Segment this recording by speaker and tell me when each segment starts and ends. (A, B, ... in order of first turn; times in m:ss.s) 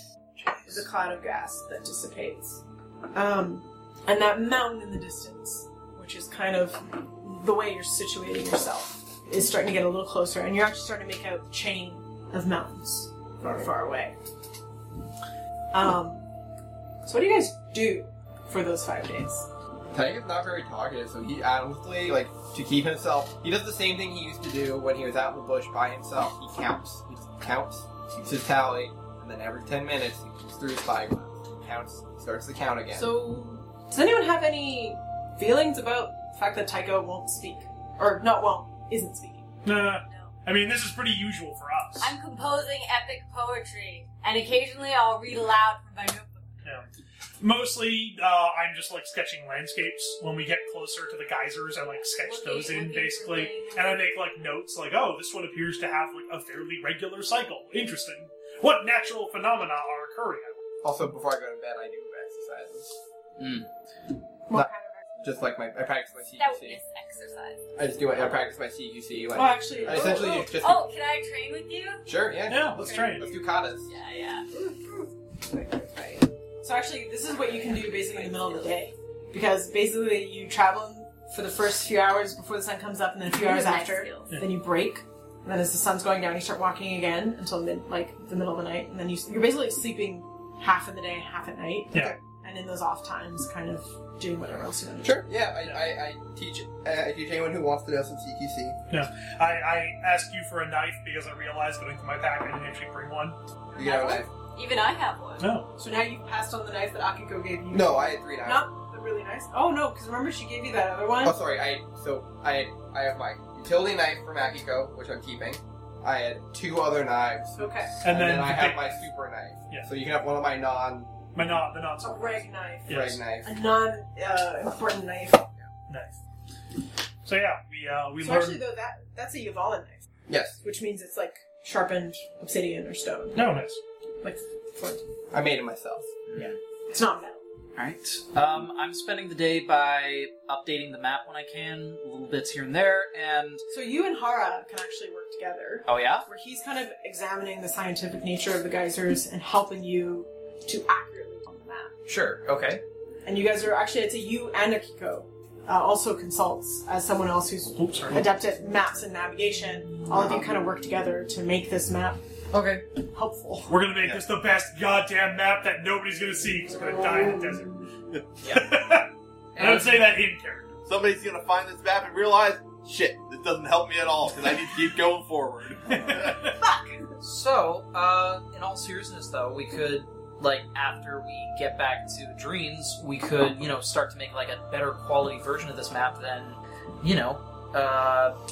0:00.6-0:14.2 A
0:15.7-0:16.2 A
0:17.0-0:19.5 A
0:19.9-0:33.1 B
0:32.9-0:39.5 A
0:39.6-0:42.1 C
0:40.1-0:40.3 D
0:42.0-0:46.6 D
0:46.6-0:46.9 C
0:47.4-1:00.6 C
0:51.9-0:53.9 D
1:00.8-1:02.9 B
1:03.4-1:03.7 E
1:04.5-1:05.1 A
1:05.2-1:06.8 B
1:06.4-1:07.6 D
1:07.8-1:10.9 B
1:09.3-1:10.5 A
1:10.0-1:14.5 D
1:12.1-1:13.9 B
1:12.5-1:13.3 C
1:14.6-1:35.2 A
1:17.3-1:18.7 D
1:23.3-1:24.3 D
1:35.0-1:38.8 B
1:38.9-1:43.4 C
1:43.8-1:45.6 D
1:43.8-1:44.3 B
1:45.4-1:45.7 C
1:45.8-1:51.4 A
1:47.7-1:48.7 B
1:51.2-2:01.2 B
1:57.6-1:58.0 A
1:58.0-1:58.8 C
2:01.4-2:03.2 C
2:02.0-2:05.5 A
2:02.9-2:03.5 B
2:05.9-2:06.2 C
2:07.2-2:08.6 C
2:08.2-2:10.0 A
2:10.3-2:10.6 B
2:10.6-2:13.5 A
2:13.4-2:13.8 C
2:14.2-2:15.0 A
2:15.3-2:16.1 B
2:16.3-2:16.6 E
2:16.9-2:17.4 A
2:17.8-2:23.6 E
2:23.7-2:32.0 A
2:25.9-2:26.2 E
2:32.1-2:32.8 E
2:33.2-2:42.2 A
2:37.8-2:38.3 C
2:42.5-2:42.8 E
2:43.1-2:43.8 A
2:43.7-2:47.9 C
2:48.4-2:50.7 C
2:49.6-2:50.0 E
2:50.9-2:56.5 F
2:55.9-2:56.6 C
2:57.2-3:08.4 E